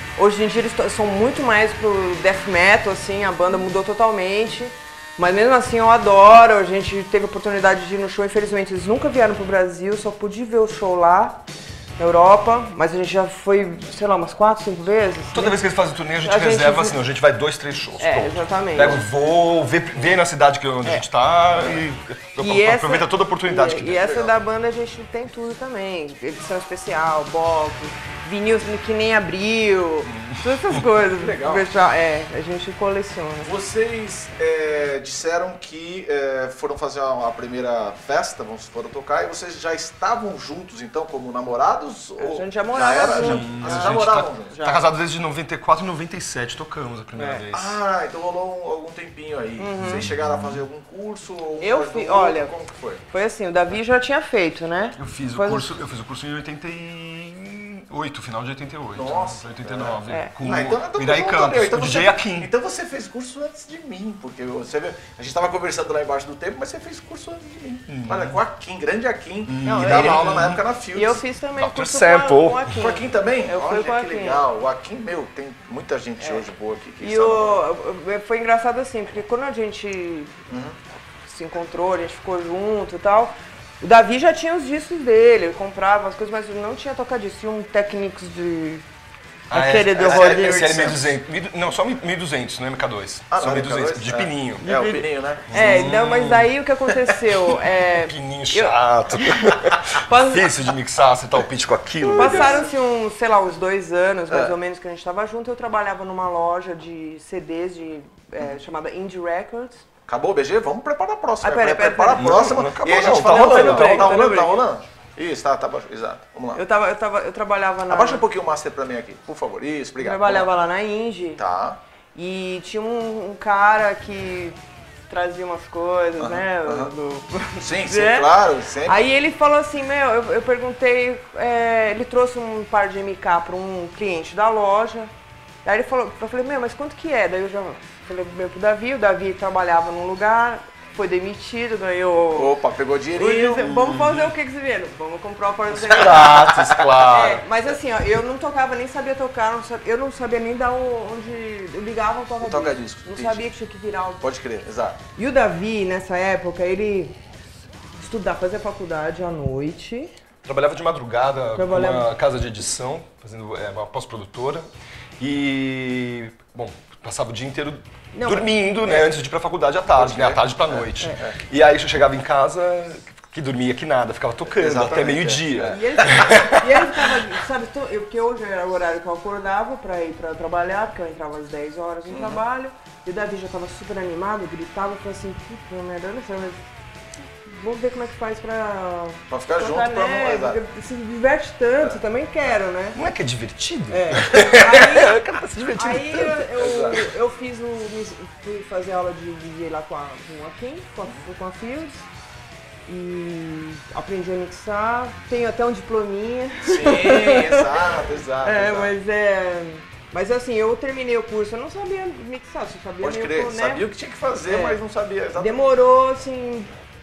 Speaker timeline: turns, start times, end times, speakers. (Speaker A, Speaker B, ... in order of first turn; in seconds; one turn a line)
Speaker A: 0.2-11.4
Speaker A: 12.0-15.6
Speaker B: 15.3-24.2
Speaker A: 16.2-17.0
Speaker A: 18.0-19.0
Speaker C: 21.5-21.8
Speaker A: 22.4-33.5
Speaker B: 30.1-30.8
Speaker C: 31.1-31.7
Speaker C: 33.4-44.6
Speaker A: 42.2-44.8
Speaker B: 43.1-47.8
Speaker A: 47.1-47.4
Speaker C: 47.5-53.0
Speaker A: 49.6-50.1
Speaker A: 51.6-52.5
Speaker A: 53.1-55.8
Speaker B: 55.0-62.5
Speaker C: 58.9-71.2
Speaker A: 60.1-60.3
Speaker B: 67.9-68.4
Speaker B: 69.5-70.6
Speaker A: 69.6-74.4
Speaker B: 71.6-72.8
Speaker C: 72.7-77.6
Speaker A: 77.0-80.5
Speaker C: 80.5-80.8
Speaker A: 81.2-88.8
Speaker A: 89.5-90.9
Speaker B: 89.5-94.7
Speaker C: 89.9-91.1
Speaker C: 93.3-95.5
Speaker A: 94.6-100.5
Speaker B: 95.5-96.5
Speaker B: 98.0-102.7
Speaker C: 102.0-102.7
Speaker A: 102.2-109.8
Speaker C: 104.3-104.5
Speaker C: 110.1-116.6
Speaker A: 111.4-112.6
Speaker B: 112.1-114.2
Speaker A: 113.2-114.6
Speaker A: 116.5-118.2
Speaker C: 117.9-120.5
Speaker A: 120.0-121.4
Speaker C: 121.4-121.8
Speaker A: 122.1-128.3
Speaker C: 126.2-126.9
Speaker C: 127.6-129.0
Speaker A: 128.8-135.1
Speaker A: 135.6-142.6
Speaker C: 142.3-143.7
Speaker A: 143.1-146.3
Speaker B: 143.6-144.3
Speaker B: 145.8-147.4
Speaker C: 145.8-147.0
Speaker A: 147.1-154.2
Speaker C: 152.4-153.4
Speaker C: 154.2-155.0
Speaker A: 155.2-157.2
Speaker A: 158.0-160.1
Speaker B: 160.4-164.7
Speaker A: 161.6-162.1
Speaker B: 165.2-177.2
Speaker A: 168.1-169.1
Speaker C: 169.9-171.4
Speaker C: 174.5-176.3
Speaker A: 175.6-186.7
Speaker C: 182.1-182.4
Speaker A: 187.4-193.0
Speaker C: 189.3-190.6
Speaker B: 192.9-197.1
Speaker A: 193.9-202.0
Speaker A: 202.8-207.9
Speaker C: 206.6-208.9
Speaker A: 208.4-213.9
Speaker C: 213.0-215.6
Speaker A: 214.4-214.8
Speaker A: 215.3-216.7